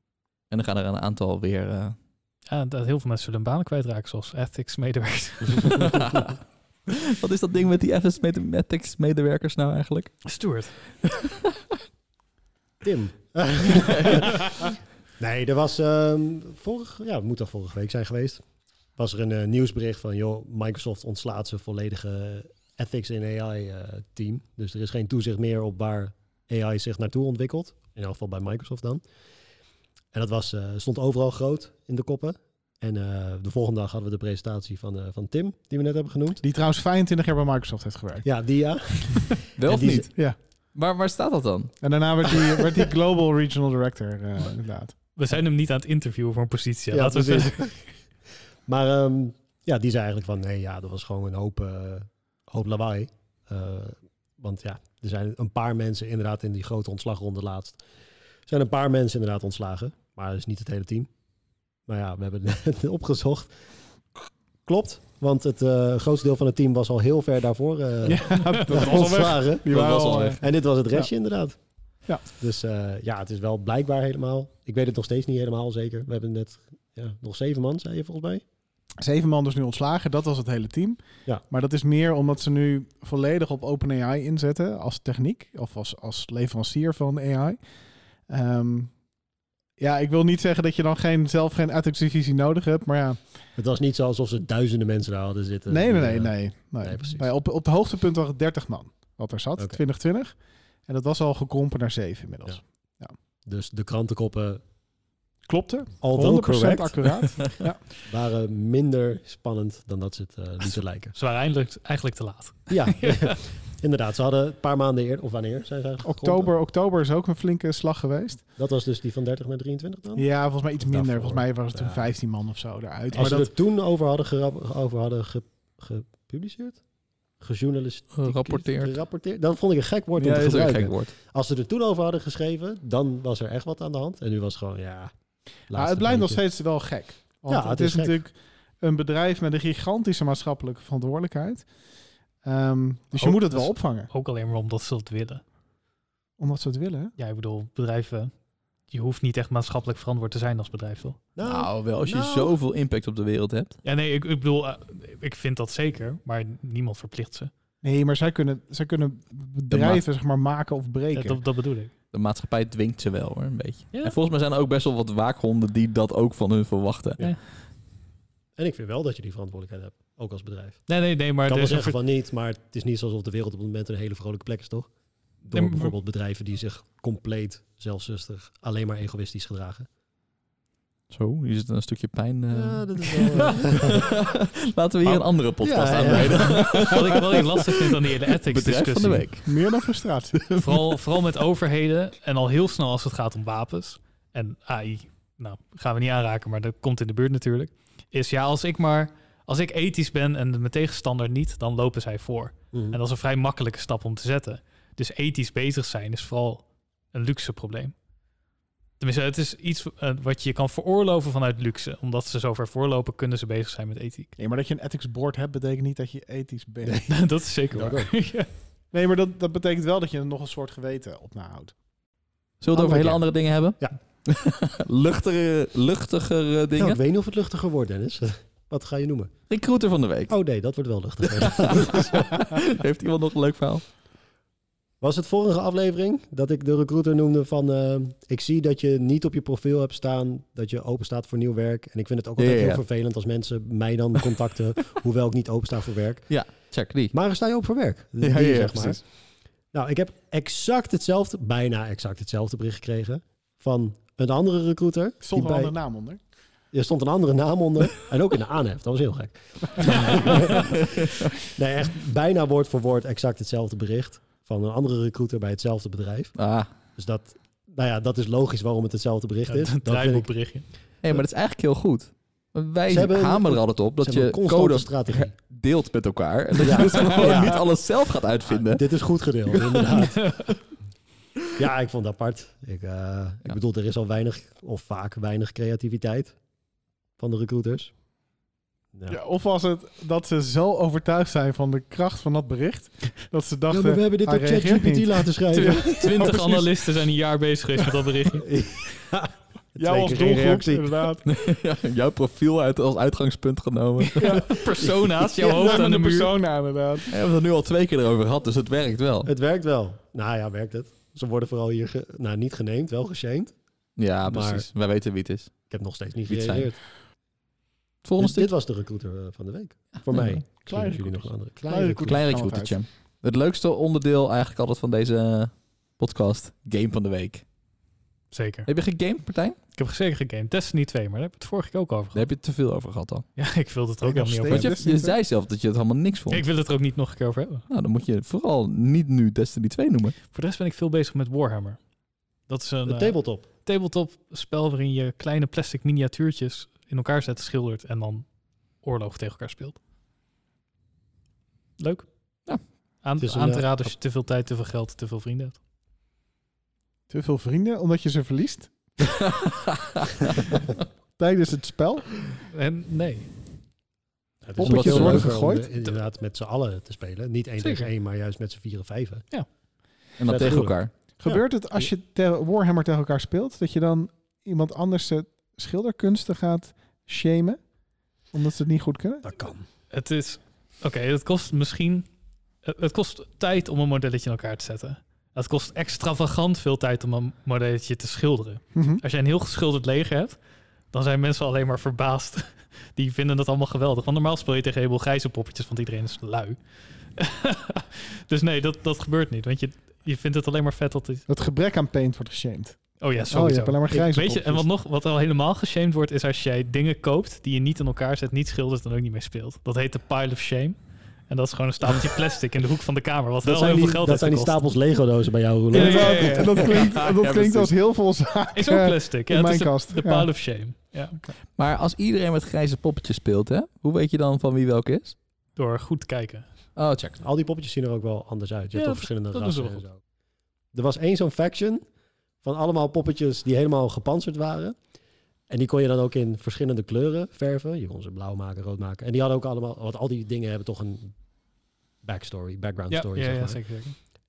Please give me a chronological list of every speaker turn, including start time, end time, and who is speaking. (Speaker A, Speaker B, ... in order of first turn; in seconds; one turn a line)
Speaker A: 0.5-2.0
Speaker B: 2.5-6.0
Speaker A: 5.9-6.3
Speaker A: 6.9-10.3
Speaker B: 10.2-10.7
Speaker A: 11.0-11.3
Speaker C: 12.8-18.4
Speaker C: 19.0-29.0
Speaker C: 30.1-36.4
Speaker D: 36.4-38.3
Speaker C: 38.2-40.1
Speaker A: 39.6-41.8
Speaker D: 41.8-45.0
Speaker B: 45.1-47.7
Speaker C: 46.9-47.9
Speaker C: 48.7-57.8
Speaker C: 58.5-61.1
Speaker C: 61.9-63.5
Speaker C: 64.7-69.7
Speaker D: 68.0-70.4
Speaker A: 69.7-70.4
Speaker C: 70.4-71.6
Speaker C: 72.3-78.4
Speaker D: 79.0-87.6
Speaker D: 88.3-89.0
Speaker D: 89.8-93.3
Speaker C: 93.6-97.3
Speaker D: 95.7-103.1
Speaker C: 103.5-104.6
Speaker D: 105.5-107.8
Speaker C: 106.0-107.2
Speaker C: 108.0-111.1
Speaker B: 111.1-113.4
Speaker C: 112.7-116.5
Speaker D: 116.0-118.4
Speaker C: 118.6-122.1
Speaker D: 120.2-123.5
Speaker C: 123.1-126.8
Speaker C: 127.4-135.1
Speaker A: 128.1-128.9
Speaker A: 130.2-131.1
Speaker D: 130.4-130.8
Speaker C: 135.7-136.4
Speaker D: 135.7-141.7
Speaker C: 137.5-138.2
Speaker D: 142.4-144.1
Speaker B: 143.2-145.4
Speaker D: 146.4-147.1
Speaker B: 147.2-148.3
Speaker B: 148.9-151.2
Speaker C: 151.4-152.5
Speaker A: 151.4-153.8
Speaker B: 153.8-157.5
Speaker D: 157.8-161.4
Speaker A: 159.7-160.0
Speaker B: 161.1-161.9
Speaker A: 162.1-167.2
Speaker C: 168.6-170.8
Speaker B: 170.9-172.0
Speaker C: 171.5-174.9
Speaker C: 175.4-179.9
Speaker B: 175.5-175.9
Speaker A: 181.1-187.6
Speaker C: 182.5-184.1
Speaker C: 185.1-187.3
Speaker B: 186.6-189.3
Speaker A: 188.5-189.8
Speaker D: 189.4-190.5
Speaker A: 190.4-190.6
Speaker B: 190.6-207.9
Speaker C: 202.7-203.0
Speaker B: 209.0-214.3
Speaker D: 214.4-217.1
Speaker C: 216.8-217.1
Speaker B: 217.1-218.5
Speaker C: 217.7-218.1
Speaker D: 218.9-221.8
Speaker A: 222.6-227.0
Speaker D: 222.7-223.2
Speaker C: 226.8-229.3
Speaker A: 229.5-230.3
Speaker C: 230.3-232.5
Speaker A: 231.2-233.8
Speaker C: 235.0-246.3
Speaker A: 242.4-242.8
Speaker A: 246.3-247.1
Speaker C: 247.1-249.0
Speaker A: 248.2-249.0
Speaker C: 249.7-255.8
Speaker D: 255.2-256.2
Speaker C: 256.7-266.4
Speaker A: 260.7-261.3
Speaker A: 266.4-266.7
Speaker C: 267.0-270.3
Speaker B: 269.5-270.7
Speaker A: 271.0-278.9
Speaker C: 272.9-275.3
Speaker C: 276.6-277.7
Speaker C: 278.5-280.5
Speaker B: 280.0-280.5
Speaker C: 281.6-286.4
Speaker C: 287.2-287.9
Speaker D: 289.1-295.3
Speaker C: 293.7-296.3
Speaker B: 295.5-298.5
Speaker A: 296.0-296.6
Speaker C: 298.4-301.1
Speaker D: 299.8-301.2
Speaker A: 301.2-305.2
Speaker B: 304.0-306.3
Speaker D: 304.2-304.6
Speaker D: 305.4-307.1
Speaker A: 307.1-309.3
Speaker C: 309.2-313.6
Speaker A: 314.0-315.6
Speaker C: 314.2-314.7
Speaker C: 315.7-316.8
Speaker A: 316.3-316.7
Speaker A: 318.0-318.5
Speaker C: 318.2-322.2
Speaker A: 320.0-320.4
Speaker D: 320.7-322.8
Speaker A: 322.1-327.4
Speaker B: 328.3-328.7
Speaker A: 328.7-329.6
Speaker B: 329.8-332.3
Speaker A: 332.1-333.3
Speaker B: 333.4-334.8
Speaker D: 334.0-335.2
Speaker A: 334.5-336.4
Speaker B: 336.3-337.7
Speaker A: 337.7-340.2
Speaker B: 340.3-341.8
Speaker B: 342.5-348.3
Speaker C: 342.9-343.5
Speaker B: 348.8-349.8
Speaker B: 351.8-352.1
Speaker B: 353.0-355.6
Speaker C: 353.2-353.9
Speaker D: 357.1-359.2
Speaker A: 359.6-360.1
Speaker D: 361.2-362.1
Speaker B: 362.5-363.3
Speaker C: 364.4-369.3
Speaker D: 364.6-365.7
Speaker A: 364.6-365.4
Speaker B: 367.6-367.9
Speaker A: 370.2-370.9
Speaker C: 370.2-371.9
Speaker D: 371.2-377.6
Speaker D: 378.3-379.3
Speaker C: 379.2-379.6
Speaker B: 379.9-382.1
Speaker B: 382.6-390.4
Speaker D: 388.8-389.0
Speaker B: 390.9-396.6
Speaker B: 397.1-401.3
Speaker D: 401.3-404.6
Speaker B: 403.0-410.8
Speaker C: 403.9-404.6
Speaker B: 411.3-414.6
Speaker C: 413.4-416.7
Speaker B: 415.7-416.8
Speaker D: 415.7-420.3
Speaker A: 416.6-417.8
Speaker B: 418.5-421.2
Speaker A: 421.6-425.2
Speaker B: 425.6-426.5
Speaker A: 426.8-427.2
Speaker C: 427.2-430.0
Speaker B: 428.7-429.9
Speaker C: 430.7-431.8
Speaker C: 432.4-434.8
Speaker C: 435.5-441.2
Speaker C: 442.0-443.6
Speaker B: 442.9-444.0